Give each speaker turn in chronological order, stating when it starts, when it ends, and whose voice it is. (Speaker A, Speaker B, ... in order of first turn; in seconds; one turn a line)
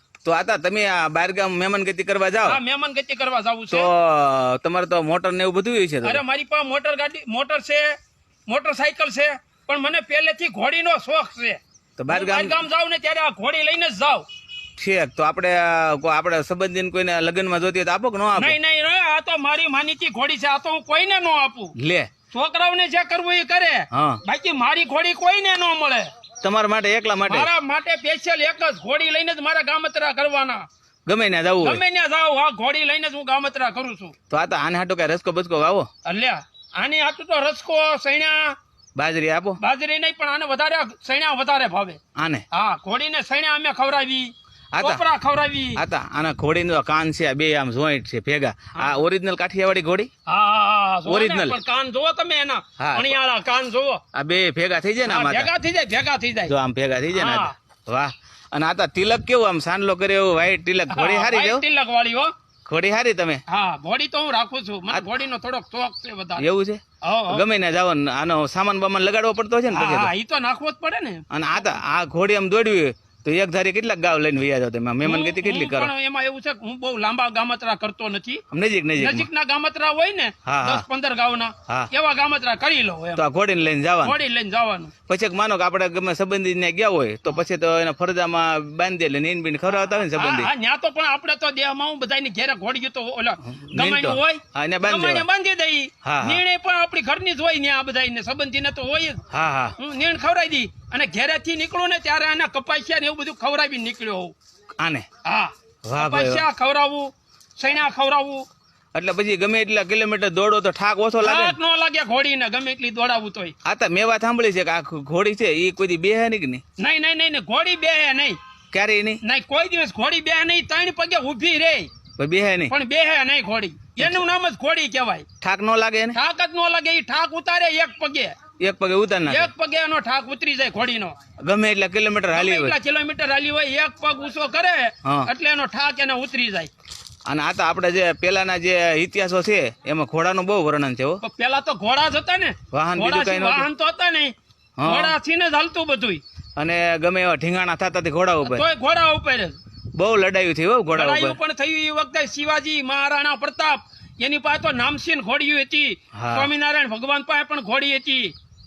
Speaker A: 0.2-2.6
Speaker B: 2.5-3.9
Speaker A: 3.7-6.2
Speaker B: 6.0-7.9
Speaker B: 8.5-14.3
Speaker A: 12.0-12.6
Speaker A: 14.8-18.6
Speaker B: 18.4-21.7
Speaker A: 21.8-22.1
Speaker B: 22.3-26.1
Speaker A: 23.9-24.2
Speaker A: 26.4-27.5
Speaker B: 27.3-30.6
Speaker A: 31.1-31.8
Speaker B: 31.6-34.1
Speaker A: 34.3-35.9
Speaker B: 36.0-38.5
Speaker A: 39.0-39.6
Speaker B: 39.6-42.0
Speaker A: 42.2-42.5
Speaker B: 42.5-45.8
Speaker A: 44.7-45.0
Speaker A: 45.8-50.1
Speaker B: 50.3-54.0
Speaker A: 51.1-51.6
Speaker A: 52.8-53.1
Speaker A: 54.1-55.5
Speaker B: 55.0-56.5
Speaker A: 56.5-61.6
Speaker B: 57.1-57.5
Speaker B: 60.9-62.3
Speaker A: 62.7-63.4
Speaker B: 63.5-66.4
Speaker A: 66.4-70.1
Speaker B: 67.0-67.4
Speaker B: 69.7-71.2
Speaker A: 71.3-75.9
Speaker B: 75.0-78.4
Speaker A: 78.5-79.3
Speaker B: 79.0-83.2
Speaker A: 80.5-80.8
Speaker A: 83.2-84.2
Speaker B: 84.0-84.9
Speaker A: 85.1-90.5
Speaker B: 90.1-99.2
Speaker A: 93.6-95.2
Speaker A: 96.0-96.4
Speaker A: 99.3-99.8
Speaker B: 99.8-104.3
Speaker A: 104.8-105.1
Speaker B: 105.2-108.5
Speaker A: 105.8-106.4
Speaker A: 108.9-111.6
Speaker B: 111.2-113.5
Speaker A: 113.7-116.6
Speaker B: 116.8-118.4
Speaker A: 118.7-119.2
Speaker B: 119.2-121.9
Speaker A: 122.2-122.7
Speaker B: 122.7-125.3
Speaker A: 125.4-126.2
Speaker B: 126.2-128.3
Speaker A: 128.6-129.5
Speaker B: 129.3-131.2
Speaker A: 131.4-132.8
Speaker B: 132.3-136.7
Speaker A: 135.1-135.3
Speaker A: 137.3-141.2
Speaker B: 141.2-144.3
Speaker A: 142.7-143.7
Speaker A: 144.8-145.2
Speaker B: 144.8-146.2
Speaker A: 146.6-148.7
Speaker B: 148.4-149.6
Speaker A: 150.0-151.4
Speaker B: 150.9-158.3
Speaker A: 156.1-156.5